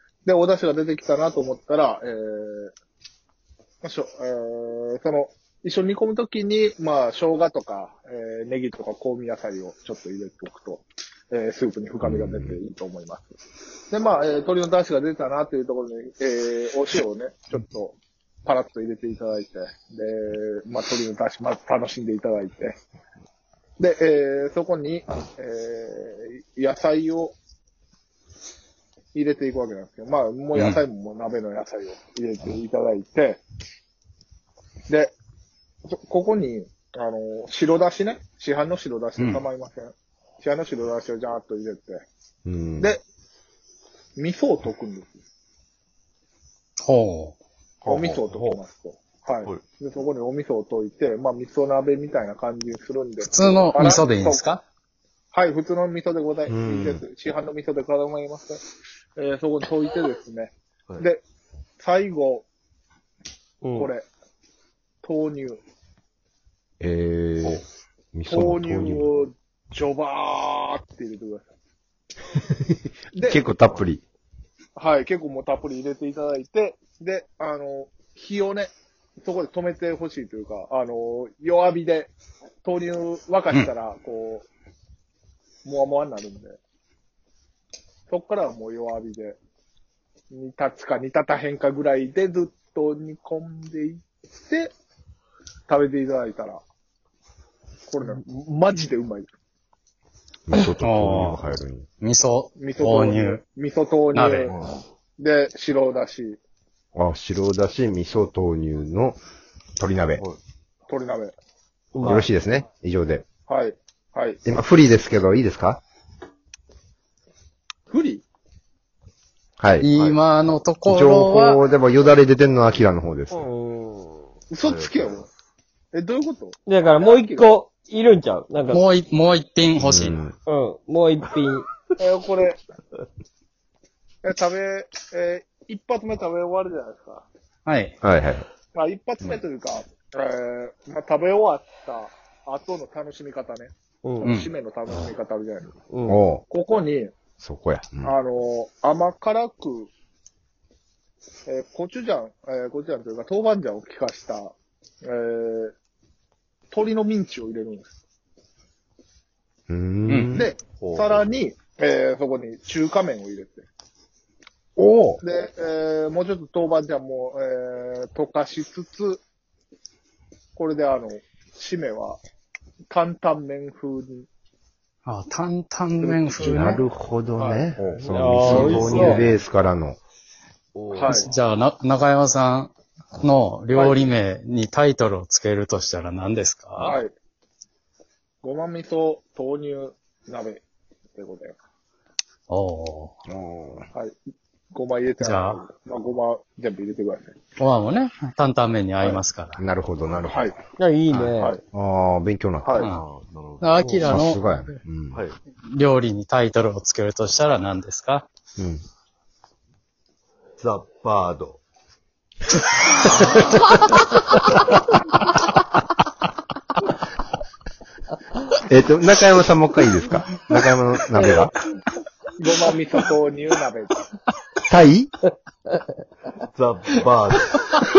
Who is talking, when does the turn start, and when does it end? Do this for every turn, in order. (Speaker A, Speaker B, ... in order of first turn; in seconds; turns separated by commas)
Speaker A: 0.2-2.7, Speaker A: 3.8-13.3, Speaker B: 12.0-12.6, Speaker A: 13.9-22.8, Speaker A: 23.8-27.4, Speaker A: 29.1-33.4, Speaker C: 30.6-30.8, Speaker A: 34.9-35.1, Speaker A: 35.9-42.0, Speaker C: 39.2-39.4, Speaker B: 42.5-43.0, Speaker A: 44.2-45.1, Speaker C: 46.8-47.4, Speaker D: 47.8-48.6, Speaker A: 47.9-54.5, Speaker C: 53.2-54.6, Speaker A: 55.3-58.6, Speaker B: 56.5-57.0, Speaker A: 59.2-61.2, Speaker A: 61.8-62.5, Speaker E: 63.6-63.9, Speaker A: 63.8-64.1, Speaker A: 65.0-65.6, Speaker B: 66.8-67.6, Speaker B: 68.1-69.1, Speaker A: 68.3-71.5, Speaker A: 73.1-73.4, Speaker B: 73.2-74.0, Speaker A: 74.8-82.1, Speaker A: 82.6-84.5, Speaker A: 85.6-86.6, Speaker A: 88.1-89.4, Speaker A: 90.3-94.7, Speaker A: 95.7-96.6, Speaker A: 97.9-99.3, Speaker B: 100.5-101.8, Speaker C: 100.8-101.4, Speaker C: 102.0-103.4, Speaker A: 102.6-104.6, Speaker C: 104.1-104.5, Speaker D: 104.5-104.8, Speaker A: 105.2-106.4, Speaker B: 107.0-109.2, Speaker B: 109.8-110.2, Speaker A: 110.9-111.3, Speaker E: 112.0-112.3, Speaker B: 112.0-113.2, Speaker A: 113.5-114.4, Speaker B: 114.5-115.8, Speaker A: 117.9-118.2, Speaker B: 119.6-119.9, Speaker C: 119.8-121.6, Speaker D: 119.9-120.2, Speaker B: 120.9-123.4, Speaker E: 123.3-124.3, Speaker A: 124.5-125.3, Speaker D: 124.6-125.3, Speaker A: 125.9-127.5, Speaker E: 126.7-128.8, Speaker C: 128.7-130.2, Speaker B: 129.8-130.3, Speaker E: 130.5-131.7, Speaker A: 132.0-132.6, Speaker A: 134.2-137.3, Speaker C: 137.7-138.0, Speaker B: 138.0-138.5, Speaker A: 138.7-145.8, Speaker E: 144.1-144.3, Speaker C: 144.2-144.5, Speaker E: 145.9-146.2, Speaker B: 146.1-146.4, Speaker A: 146.5-147.1, Speaker B: 147.4-148.1, Speaker A: 148.0-149.9, Speaker A: 151.5-155.7, Speaker A: 156.7-157.9, Speaker B: 159.7-160.5, Speaker C: 160.1-160.4, Speaker A: 160.3-163.7, Speaker D: 160.8-161.3, Speaker B: 164.8-165.2, Speaker A: 165.2-169.2, Speaker A: 170.6-172.2, Speaker A: 172.9-174.3, Speaker C: 175.1-176.8, Speaker A: 176.0-176.9, Speaker B: 176.4-180.0, Speaker A: 177.4-177.9, Speaker E: 178.0-179.3, Speaker D: 178.6-179.1, Speaker A: 178.6-179.0, Speaker D: 180.8-181.2, Speaker A: 180.9-181.3, Speaker C: 181.1-187.0, Speaker A: 183.7-184.1, Speaker A: 186.8-187.1, Speaker A: 188.4-190.6, Speaker A: 191.2-191.6, Speaker C: 192.5-193.2, Speaker B: 193.3-193.9, Speaker A: 194.7-197.4, Speaker C: 195.2-195.6, Speaker C: 197.6-199.6, Speaker B: 199.6-200.5, Speaker A: 200.3-200.6, Speaker E: 200.8-201.6, Speaker B: 201.7-202.8, Speaker A: 202.6-202.9, Speaker C: 202.8-203.0, Speaker D: 202.8-204.1, Speaker C: 203.6-204.4, Speaker B: 204.1-205.2, Speaker C: 205.6-208.2, Speaker B: 208.6-208.8, Speaker D: 210.6-211.6, Speaker D: 213.1-213.9, Speaker B: 213.1-213.7, Speaker B: 218.7-221.5, Speaker A: 222.3-224.1, Speaker B: 224.7-225.1, Speaker D: 226.5-227.8